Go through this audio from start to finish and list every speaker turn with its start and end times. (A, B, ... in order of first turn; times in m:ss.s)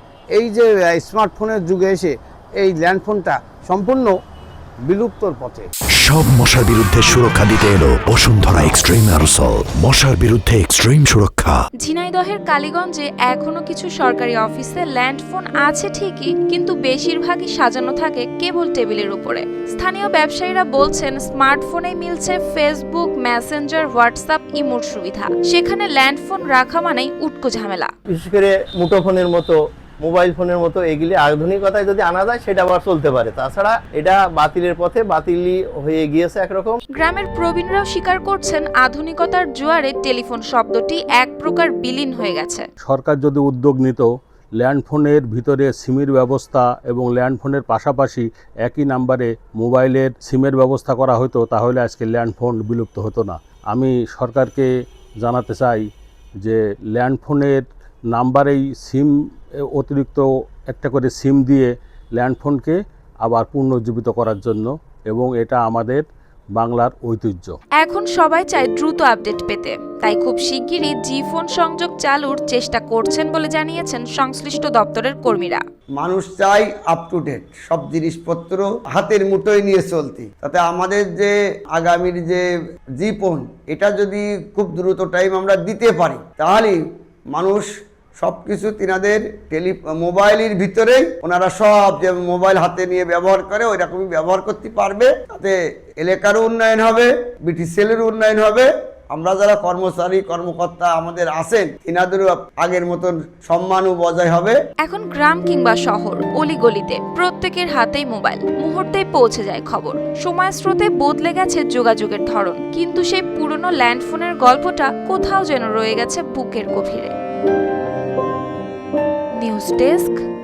0:00.4-0:04.1 A
0:04.9-0:05.7 A
0:06.0-0:11.6 B
0:11.8-0:27.9 C
0:28.1-0:36.8 D
0:37.0-0:42.7 C
0:42.8-0:54.7 E
0:55.2-0:55.9 E
0:56.4-0:59.1 E
0:59.6-1:07.6 E
1:07.8-1:15.6 C
1:16.0-1:22.4 F
1:23.0-1:26.8 F
1:27.3-1:27.7 F
1:28.2-1:44.6 F
1:44.8-1:57.1 C
1:59.4-2:00.2 C